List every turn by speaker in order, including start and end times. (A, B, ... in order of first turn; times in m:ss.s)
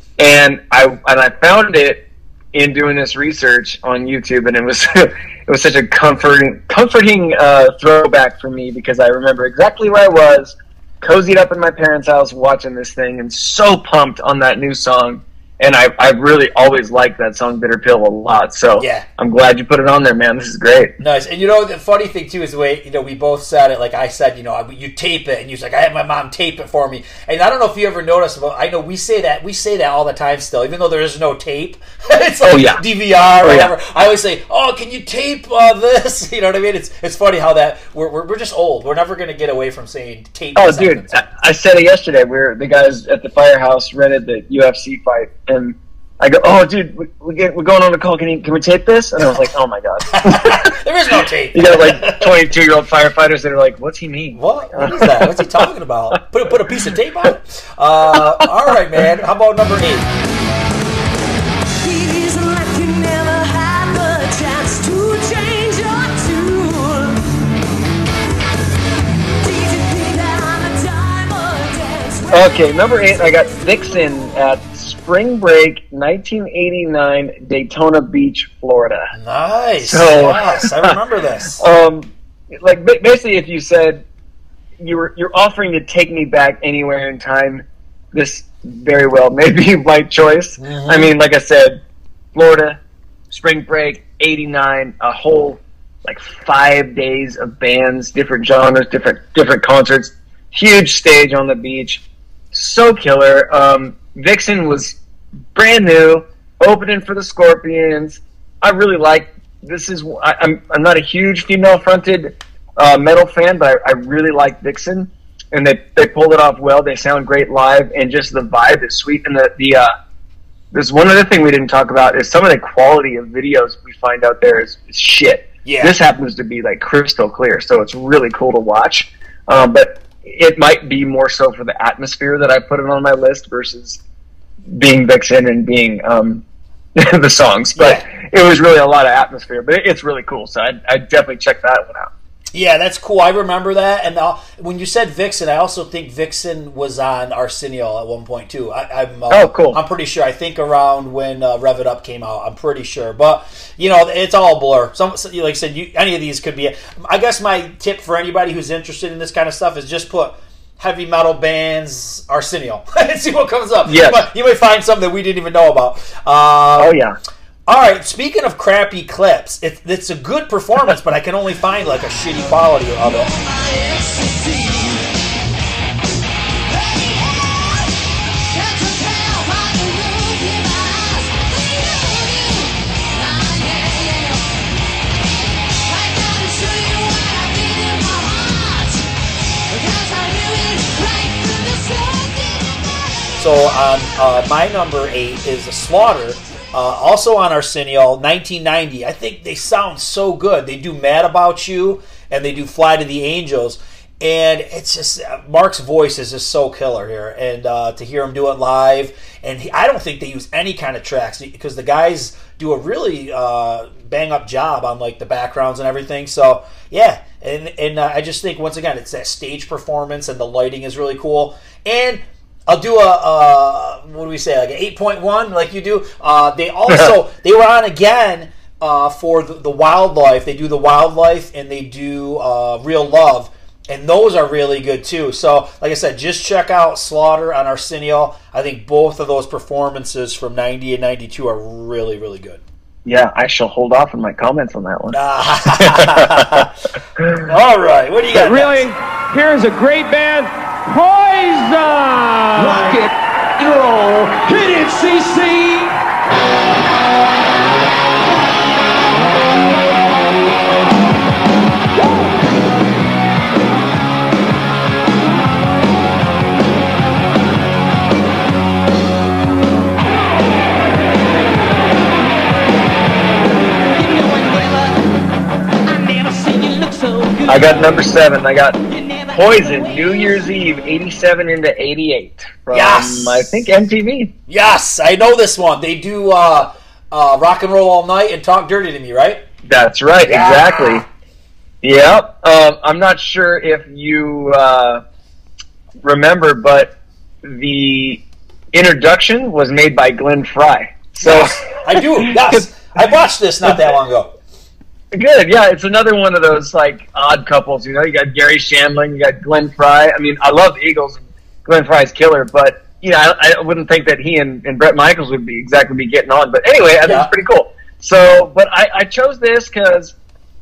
0:00.2-0:20.9 A
0:18.8-0:19.1 B
0:21.0-0:41.2 B
0:32.5-0:32.8 A
0:33.4-0:33.7 A
0:40.6-0:50.8 A
0:50.1-0:52.4 B
0:51.5-0:55.7 A
0:54.4-1:00.1 B
0:58.1-0:58.5 A
1:01.8-1:07.3 C
1:09.4-1:14.4 C
1:12.3-1:19.1 A
1:19.2-1:21.6 B
1:19.8-1:21.0 A
1:21.6-1:24.0 A
1:24.8-1:31.8 A
1:30.6-1:31.1 B
1:32.3-1:32.8 A
1:33.3-1:45.0 A
1:45.5-1:59.9 A
2:00.7-2:14.0 A
2:05.6-2:06.0 B
2:14.7-2:16.4 A
2:17.0-2:22.1 A
2:17.8-2:18.0 B
2:22.5-2:46.9 B
2:29.3-2:29.8 A
2:43.9-2:44.2 A
2:46.8-2:47.2 A
2:47.7-2:53.3 B
2:53.0-2:55.2 C
2:56.7-3:09.1 C
3:09.7-3:14.1 C
3:13.4-4:02.6 B
4:03.0-4:06.7 A
4:05.1-4:06.7 B
4:07.4-4:08.9 B
4:08.3-4:16.0 D
4:33.9-4:35.1 C
4:35.8-4:38.1 C
4:37.5-4:38.8 A
4:38.9-4:40.7 C
4:39.3-4:44.3 A
4:42.7-4:43.5 B
4:44.5-4:49.4 B
4:49.7-4:51.0 A
4:50.2-4:51.1 B
4:51.8-4:55.0 A
4:56.0-5:02.6 A
5:01.2-5:04.3 B
5:03.7-5:03.9 A
5:05.1-5:20.2 A
5:17.0-5:17.3 B